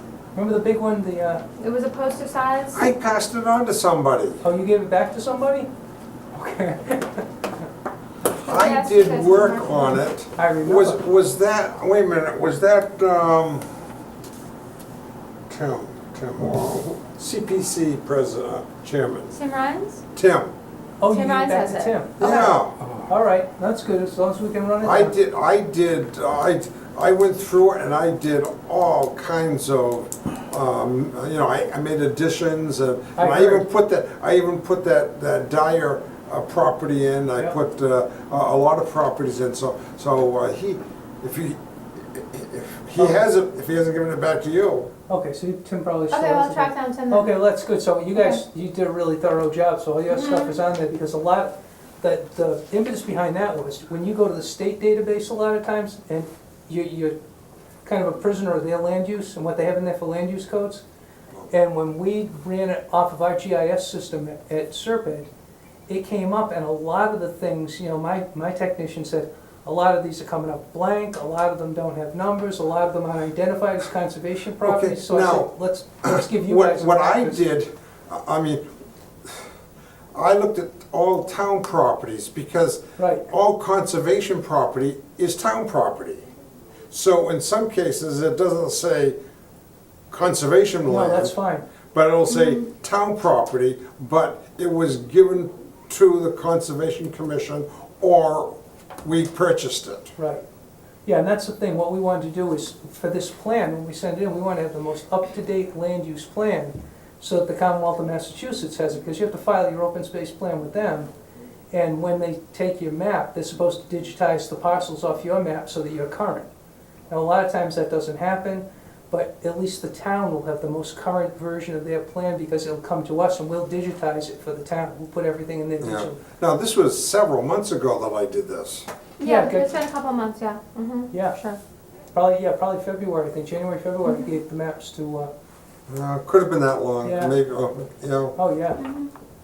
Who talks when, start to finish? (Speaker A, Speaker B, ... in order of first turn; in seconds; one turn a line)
Speaker A: 0.3-1.4
Speaker B: 1.6-2.9
Speaker C: 2.7-4.4
Speaker A: 4.4-5.7
Speaker A: 6.3-7.3
Speaker C: 8.3-13.7
Speaker B: 8.4-10.1
Speaker A: 10.3-11.0
Speaker C: 15.5-19.4
Speaker B: 19.3-20.0
Speaker C: 20.1-20.5
Speaker A: 21.0-25.2
Speaker B: 21.0-22.5
Speaker C: 22.2-22.8
Speaker C: 24.8-44.9
Speaker A: 33.2-33.7
Speaker A: 43.0-43.2
Speaker A: 45.1-57.2
Speaker B: 46.1-47.3
Speaker B: 48.1-48.4
Speaker B: 50.1-50.6
Speaker A: 57.9-60.8
Speaker A: 61.5-65.3
Speaker A: 65.9-77.4
Speaker C: 74.6-75.5
Speaker C: 76.0-78.7
Speaker C: 80.1-86.3
Speaker A: 83.0-83.3
Speaker C: 86.9-89.2
Speaker C: 90.1-91.3
Speaker A: 90.9-91.7
Speaker C: 91.9-100.1
Speaker B: 92.3-92.6
Speaker A: 100.2-100.4
Speaker A: 101.0-111.1
Speaker A: 111.7-116.5
Speaker A: 117.1-126.2
Speaker C: 125.8-128.9
Speaker B: 129.2-131.6
Speaker A: 129.2-129.7
Speaker A: 131.1-131.4
Speaker A: 132.1-135.3
Speaker B: 134.1-134.3
Speaker C: 135.9-138.3
Speaker A: 137.0-137.8
Speaker A: 138.3-138.8
Speaker B: 138.8-139.1